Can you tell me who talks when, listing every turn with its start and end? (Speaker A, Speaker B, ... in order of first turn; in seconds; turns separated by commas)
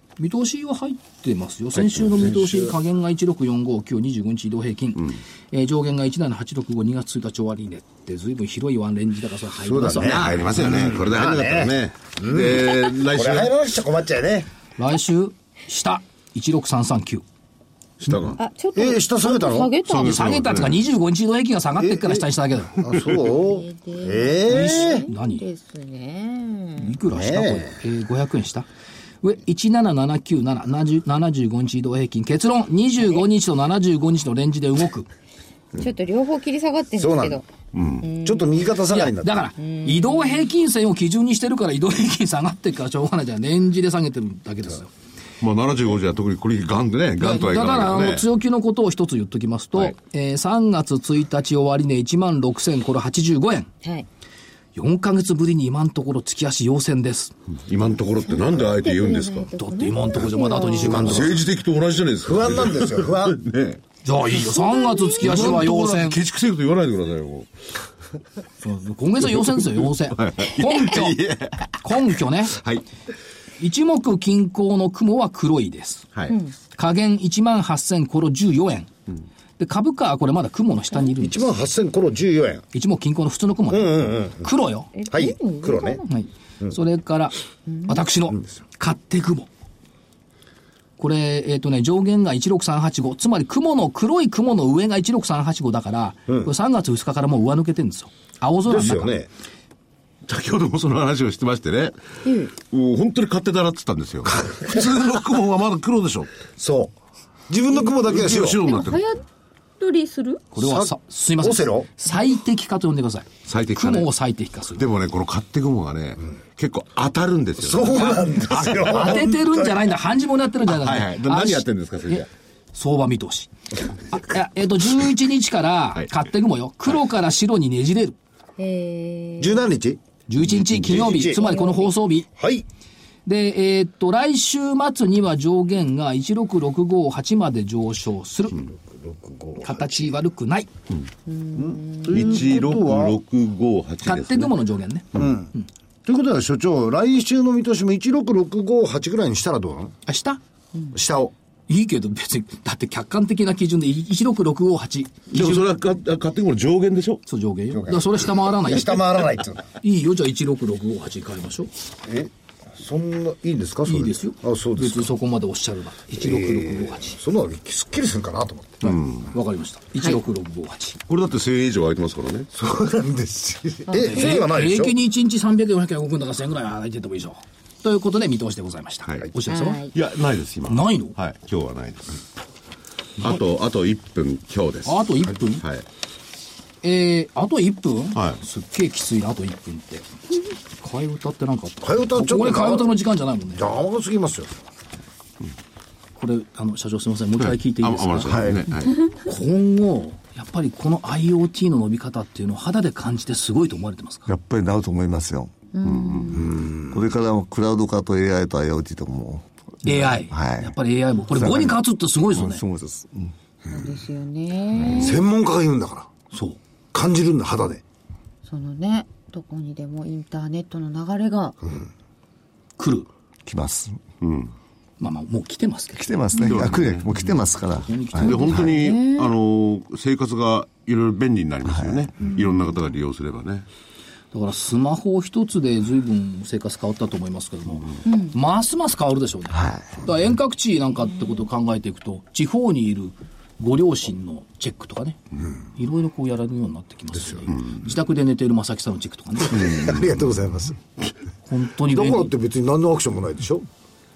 Speaker A: 0.2-10.4, Speaker B: 2.1-2.4, Speaker C: 2.4-2.7, Speaker C: 9.6-14.5, Speaker B: 10.0-13.5, Speaker A: 14.8-17.2, Speaker B: 18.0-18.4, Speaker D: 18.3-20.2, Speaker C: 18.7-19.8, Speaker B: 19.8-20.8, Speaker A: 19.9-22.8, Speaker C: 21.8-22.2, Speaker C: 22.8-25.1, Speaker D: 23.2-27.0, Speaker A: 24.4-25.4, Speaker A: 26.8-28.7, Speaker C: 27.1-27.8, Speaker A: 29.2-35.1, Speaker D: 35.8-37.5, Speaker C: 37.0-37.4, Speaker B: 37.7-38.1, Speaker D: 38.0-38.6, Speaker C: 38.2-39.4, Speaker A: 38.9-44.9, Speaker D: 39.6-40.5, Speaker B: 45.4-48.3, Speaker A: 47.2-53.7, Speaker A: 54.7-57.3, Speaker B: 57.6-59.5, Speaker D: 58.2-61.2, Speaker A: 59.6-61.4, Speaker C: 60.7-61.4, Speaker B: 60.8-63.8, Speaker C: 62.2-63.4, Speaker A: 64.0-66.2, Speaker D: 64.3-65.7, Speaker B: 65.2-67.5, Speaker A: 68.6-71.2, Speaker B: 69.5-72.8, Speaker A: 71.8-72.6, Speaker A: 73.6-76.1, Speaker D: 76.3-76.5, Speaker A: 76.7-78.9, Speaker A: 79.6-81.5, Speaker C: 81.2-82.6, Speaker A: 82.7-84.9, Speaker C: 83.7-84.5, Speaker D: 84.9-86.1, Speaker C: 85.1-86.0, Speaker A: 86.1-89.5, Speaker D: 87.7-88.0, Speaker A: 91.0-99.2, Speaker C: 98.7-99.3, Speaker B: 100.2-102.0, Speaker D: 102.2-102.5, Speaker B: 102.5-106.3, Speaker C: 104.2-104.8, Speaker C: 106.6-106.9, Speaker C: 107.5-108.6, Speaker B: 108.0-109.0, Speaker D: 108.6-109.2, Speaker D: 109.8-110.5, Speaker A: 110.5-114.8, Speaker C: 110.6-111.9, Speaker B: 113.5-114.1, Speaker B: 114.8-119.2, Speaker C: 117.6-119.6, Speaker A: 118.8-123.5, Speaker B: 120.7-122.3, Speaker A: 124.1-128.2, Speaker D: 128.6-129.7, Speaker C: 129.4-130.0, Speaker A: 130.3-132.3, Speaker B: 130.6-130.9, Speaker C: 130.8-131.5, Speaker D: 131.3-131.9, Speaker C: 132.3-132.7, Speaker A: 133.2-138.6, Speaker C: 138.6-140.1, Speaker A: 139.6-140.7, Speaker D: 141.3-142.7, Speaker C: 141.6-143.2, Speaker B: 142.1-144.5, Speaker A: 144.0-145.7, Speaker C: 145.1-145.5, Speaker C: 146.0-149.9, Speaker A: 150.1-150.4, Speaker C: 150.9-151.3, Speaker A: 151.7-155.7, Speaker B: 155.3-157.2, Speaker A: 157.3-159.1, Speaker C: 157.7-159.7, Speaker A: 159.8-161.7, Speaker C: 162.0-165.1, Speaker A: 163.8-167.2, Speaker C: 166.2-169.0, Speaker A: 168.8-171.0, Speaker B: 168.8-169.2, Speaker B: 171.1-172.5, Speaker C: 172.5-174.9, Speaker A: 173.9-179.8, Speaker D: 179.5-179.9, Speaker B: 179.9-182.2, Speaker A: 180.7-181.1, Speaker B: 183.2-185.8, Speaker A: 184.8-185.6, Speaker A: 186.8-190.1, Speaker A: 190.8-193.6, Speaker C: 191.8-192.9, Speaker C: 193.5-194.5, Speaker A: 196.2-204.3, Speaker B: 197.4-198.9, Speaker E: 198.3-198.7, Speaker E: 204.3-205.5, Speaker D: 205.7-206.7, Speaker B: 205.9-206.2, Speaker C: 206.5-206.9, Speaker E: 206.7-210.7, Speaker A: 209.8-212.6, Speaker E: 211.3-213.3, Speaker D: 213.7-215.2, Speaker C: 214.9-216.1, Speaker A: 216.3-216.6, Speaker C: 216.9-217.8, Speaker D: 218.4-221.8, Speaker A: 222.8-223.1, Speaker E: 223.4-224.0, Speaker B: 224.2-224.5, Speaker A: 225.0-226.1, Speaker E: 225.9-228.7, Speaker B: 226.4-227.1, Speaker A: 227.2-228.7, Speaker B: 228.2-233.7, Speaker D: 228.4-229.3, Speaker E: 231.6-232.1, Speaker D: 232.2-232.6, Speaker A: 234.3-245.2, Speaker D: 238.1-238.3, Speaker E: 239.5-239.9, Speaker A: 245.8-249.8, Speaker C: 249.5-250.8, Speaker A: 251.5-252.3, Speaker C: 251.8-253.7